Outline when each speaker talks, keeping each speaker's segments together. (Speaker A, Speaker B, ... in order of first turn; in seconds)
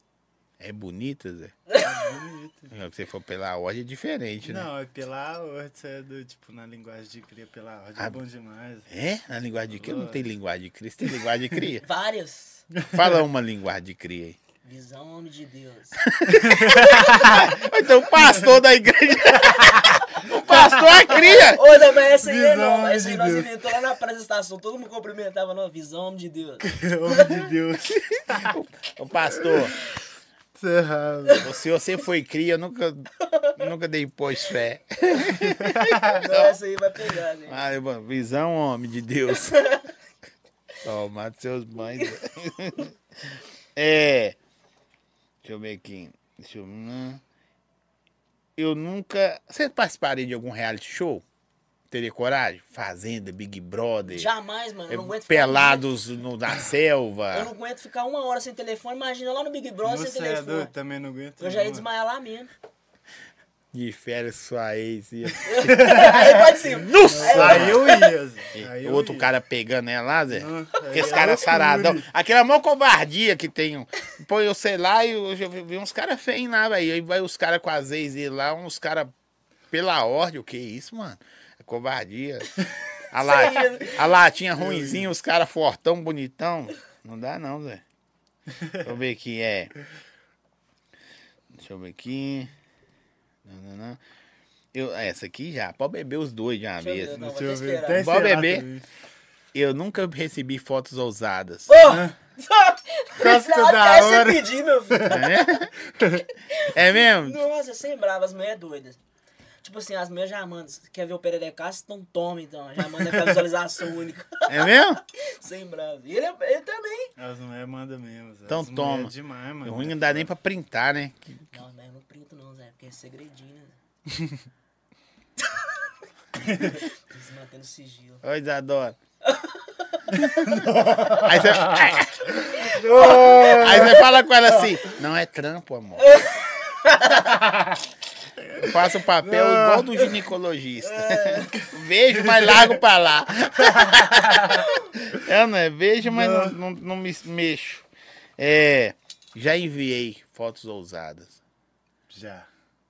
Speaker A: 0.6-1.6, 2.7-4.7, 8.9-11.8, 12.9-14.4, 16.0-21.6, 28.2-29.8, 31.4-36.6, 37.5-39.8, 40.8-42.9, 43.8-44.4, 45.4-47.2, 48.6-51.2, 51.9-54.3, 54.9-57.5, 63.7-67.9, 68.5-79.1, 79.7-82.6, 83.1-87.8, 88.7-89.7, 91.5-92.5, 93.5-94.0, 94.7-97.2, 97.9-98.7, 99.5-101.7, 105.1-105.7, 106.6-107.4, 114.5-115.0, 118.5-121.5, 128.2-129.0, 131.1-132.3, 132.9-136.2, 138.5-147.9, 148.4-151.4
Speaker B: 1.8-2.7, 4.4-8.9, 9.7-10.3, 12.7-13.2, 16.4-17.5, 20.4-23.7, 26.6-28.5, 29.4-29.7, 30.6-31.5, 35.7-36.1, 59.8-61.9, 65.7-69.3, 70.3-72.1, 84.5-85.1, 97.1-98.9, 101.8-102.2, 103.2-105.3, 105.8-106.3, 113.0-113.4, 117.2-120.3, 126.4-126.8, 130.1-134.1, 137.4-137.8, 139.2-140.0, 142.3-142.7, 143.8-144.6, 146.0-146.6, 152.1-152.5
Speaker C: 11.8-12.7, 14.6-16.0, 21.1-27.5, 36.0-37.6, 39.3-39.9, 54.1-56.0, 57.3-60.7, 61.4-62.5, 65.5-68.1, 83.2-84.2, 96.8-98.1, 101.7-105.7, 106.5-109.0, 109.6-117.1, 121.5-123.8, 125.4-125.8, 126.4-128.2, 129.2-130.1, 132.6-134.0, 136.0-137.4, 140.8-141.7